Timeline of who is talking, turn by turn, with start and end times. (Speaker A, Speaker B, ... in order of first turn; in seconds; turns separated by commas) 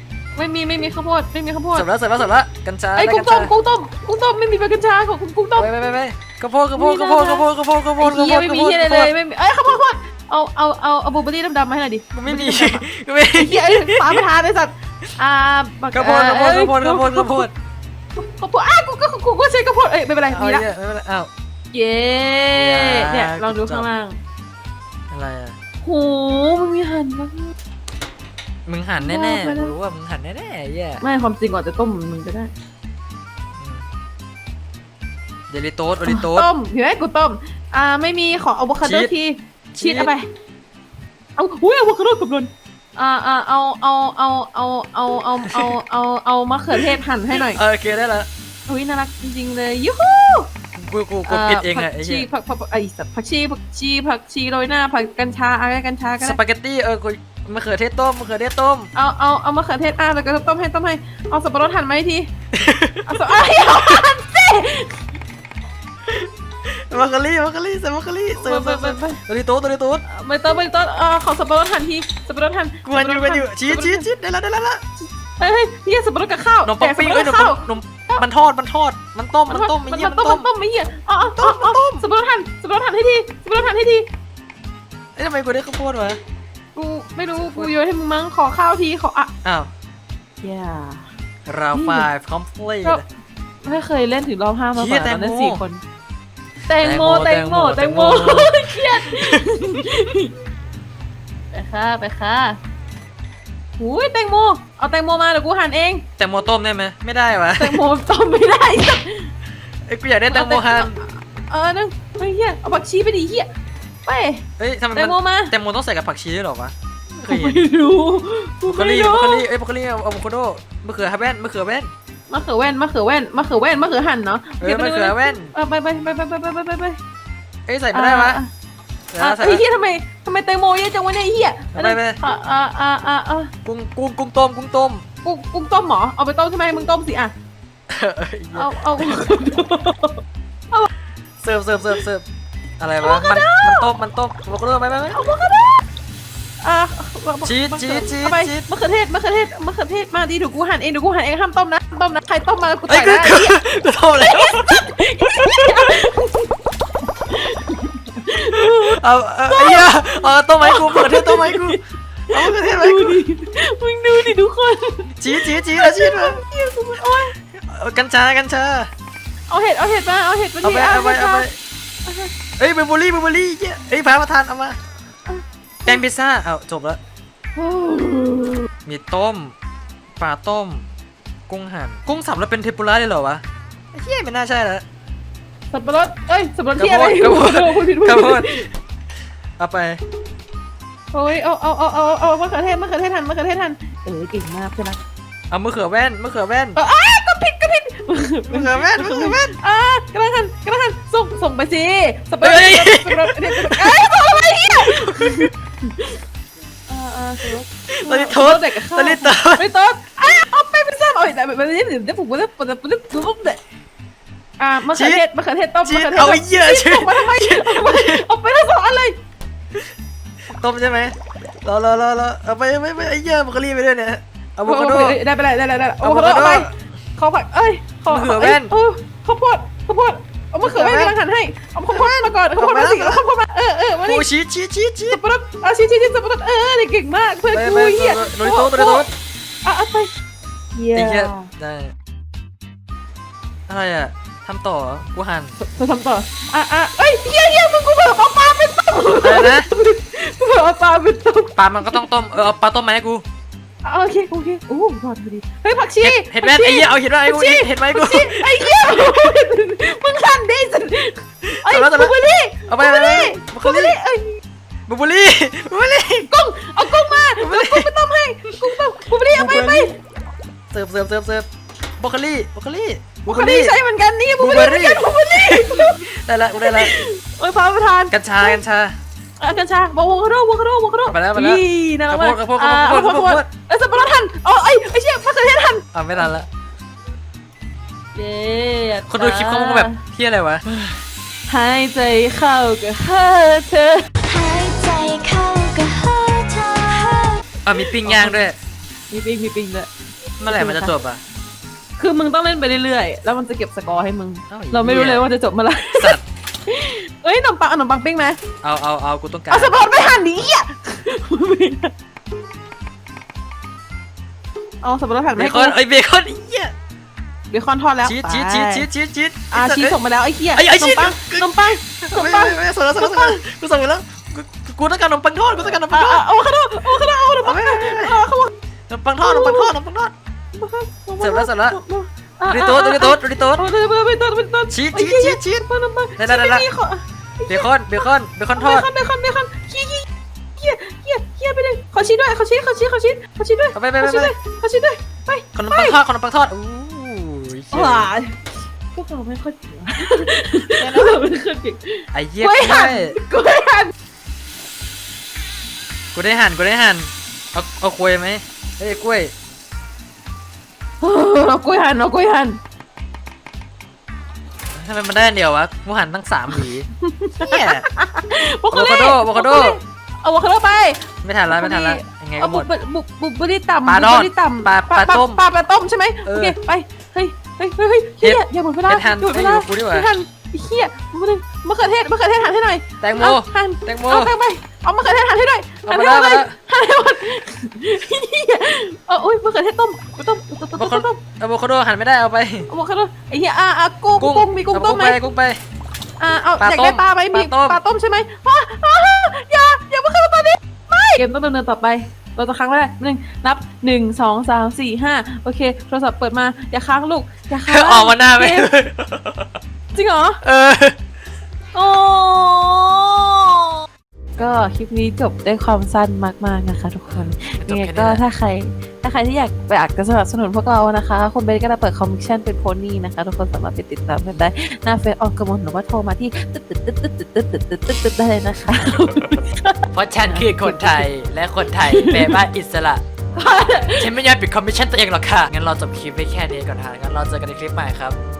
Speaker A: 0.3-1.9, Speaker B: 1.7-3.5, Speaker A: 3.0-5.7, Speaker B: 5.6-9.1, Speaker A: 6.8-7.5, Speaker A: 8.0-17.5, Speaker B: 12.1-14.2, Speaker B: 15.9-17.5, Speaker A: 18.1-20.6, Speaker B: 20.3-21.3, Speaker A: 21.7-24.2, Speaker B: 22.5-23.9, Speaker B: 25.1-25.5, Speaker A: 25.8-27.5, Speaker B: 28.6-31.0, Speaker A: 29.0-29.7, Speaker A: 31.0-32.5, Speaker B: 33.6-33.8, Speaker B: 35.5-36.5, Speaker A: 36.0-40.3, Speaker B: 38.8-39.1, Speaker B: 39.7-40.1, Speaker A: 41.4-47.6, Speaker B: 45.5-45.7, Speaker B: 47.3-48.3, Speaker A: 48.7-50.5, Speaker B: 50.7-52.3, Speaker A: 51.2-56.4, Speaker B: 56.2-58.9, Speaker A: 58.9-62.3, Speaker B: 62.5-63.1, Speaker A: 63.0-65.0, Speaker B: 66.1-70.0, Speaker A: 68.3-69.2, Speaker A: 70.0-74.0, Speaker B: 72.8-74.8, Speaker A: 75.0-78.2, Speaker B: 76.6-80.5, Speaker A: 79.5-84.0, Speaker B: 81.3-82.0, Speaker B: 85.2-86.2, Speaker A: 86.7-89.3, Speaker B: 87.3-87.7, Speaker B: 89.4-89.7, Speaker A: 90.4-91.0, Speaker B: 91.5-93.0, Speaker A: 91.7-92.1, Speaker A: 93.6-95.8, Speaker B: 94.7-95.6, Speaker A: 96.7-100.3, Speaker B: 96.8-99.7, Speaker A: 101.5-102.6, Speaker A: 103.8-106.0, Speaker B: 106.2-107.8, Speaker A: 107.6-109.3, Speaker B: 109.9-111.0, Speaker A: 110.3-113.5, Speaker A: 114.0-115.5, Speaker B: 114.6-117.7, Speaker A: 117.2-119.5, Speaker B: 118.7-121.9, Speaker A: 122.3-127.0, Speaker B: 124.6-125.5, Speaker B: 127.7-128.4, Speaker A: 127.9-128.5, Speaker B: 129.1-129.6, Speaker A: 129.2-133.5, Speaker B: 131.7-132.2, Speaker B: 133.6-135.0, Speaker A: 135.2-137.3, Speaker B: 137.9-139.2, Speaker A: 138.5-140.9, Speaker B: 141.4-142.2, Speaker B: 142.8-145.2, Speaker A: 143.0-143.9, Speaker A: 145.1-145.8, Speaker A: 146.6-153.6, Speaker B: 147.4-148.6, Speaker B: 152.9-155.9, Speaker A: 154.2-156.5, Speaker A: 157.2-161.8, Speaker B: 158.5-163.2, Speaker A: 162.3-167.3, Speaker B: 165.2-166.4, Speaker B: 167.5-168.9, Speaker A: 169.5-171.5, Speaker B: 170.6-171.6, Speaker A: 172.1-172.3, Speaker B: 172.6-174.8, Speaker A: 175.3-176.0, Speaker B: 175.8-177.0, Speaker A: 177.6-178.7, Speaker B: 178.8-179.5, Speaker B: 180.2-180.8, Speaker B: 181.5-183.4, Speaker B: 183.9-184.8, Speaker A: 185.7-188.7, Speaker B: 186.8-188.6, Speaker B: 189.6-190.0, Speaker A: 191.1-195.0, Speaker B: 195.5-196.8, Speaker A: 196.8-206.2, Speaker B: 198.5-199.6, Speaker B: 202.4-204.1, Speaker B: 204.7-205.5, Speaker A: 206.9-213.6, Speaker B: 207.9-209.6, Speaker A: 214.6-219.2, Speaker B: 214.9-215.2, Speaker B: 215.8-218.2, Speaker B: 220.5-225.2, Speaker A: 224.6-234.3, Speaker B: 226.0-226.7, Speaker B: 228.1-228.7, Speaker B: 230.6-231.1, Speaker B: 231.9-233.2, Speaker B: 234.0-235.2, Speaker A: 235.1-239.1, Speaker B: 237.5-239.1, Speaker A: 239.6-240.1, Speaker A: 240.7-241.5, Speaker B: 240.9-241.9, Speaker B: 243.7-245.6, Speaker A: 245.6-252.1, Speaker B: 249.2-249.7, Speaker B: 251.6-253.2, Speaker A: 253.8-264.4, Speaker B: 256.0-259.3, Speaker B: 261.4-262.1, Speaker B: 262.7-263.9, Speaker B: 264.9-266.3, Speaker A: 266.2-270.0, Speaker B: 267.4-267.9, Speaker B: 269.2-269.9, Speaker B: 270.7-271.4, Speaker B: 272.0-273.8, Speaker A: 273.2-278.6, Speaker B: 274.4-277.0, Speaker B: 278.1-278.9, Speaker A: 279.4-285.8, Speaker B: 281.1-283.5, Speaker B: 285.9-286.5, Speaker A: 288.1-290.0, Speaker B: 289.1-290.8, Speaker A: 291.5-294.1, Speaker C: 294.3-297.2, Speaker A: 296.2-298.4, Speaker B: 297.6-298.6, Speaker A: 299.1-299.9, Speaker B: 300.4-301.2, Speaker A: 300.5-300.9, Speaker A: 302.0-308.4, Speaker B: 304.5-305.3, Speaker B: 305.9-306.2, Speaker B: 308.6-309.8, Speaker A: 309.5-311.9, Speaker A: 314.8-315.8, Speaker B: 315.4-316.7, Speaker A: 317.5-318.9, Speaker B: 318.0-320.0, Speaker A: 319.5-323.4, Speaker B: 320.5-326.3, Speaker A: 325.7-328.5, Speaker B: 327.4-328.2, Speaker B: 328.9-330.1, Speaker A: 329.2-329.7, Speaker A: 330.5-337.7, Speaker B: 331.2-331.8, Speaker B: 332.5-333.6, Speaker B: 334.7-335.7, Speaker B: 336.2-336.7, Speaker B: 337.5-338.9, Speaker A: 338.6-340.1, Speaker A: 340.6-346.0, Speaker B: 343.7-344.3, Speaker B: 345.5-348.1, Speaker A: 347.7-348.4, Speaker A: 348.9-353.9, Speaker B: 350.7-351.2, Speaker B: 352.1-353.2, Speaker B: 356.1-359.3, Speaker A: 361.0-362.6, Speaker B: 364.8-366.9, Speaker A: 367.0-391.2, Speaker B: 367.4-367.9, Speaker B: 368.7-369.8, Speaker B: 371.2-372.7, Speaker B: 373.9-375.4, Speaker B: 376.2-376.6, Speaker B: 378.2-380.1, Speaker B: 383.0-384.3, Speaker B: 385.9-386.5, Speaker B: 390.7-392.7, Speaker A: 392.7-395.2, Speaker B: 394.2-395.6, Speaker A: 396.2-408.7, Speaker B: 396.6-397.8, Speaker B: 407.6-409.6, Speaker A: 409.9-410.4, Speaker B: 410.4-411.0, Speaker A: 411.7-413.8, Speaker B: 414.4-414.6, Speaker A: 414.4-431.1, Speaker B: 417.1-418.2, Speaker B: 428.7-429.4, Speaker B: 429.9-433.0, Speaker A: 431.8-432.4, Speaker A: 433.4-434.1, Speaker B: 433.9-438.2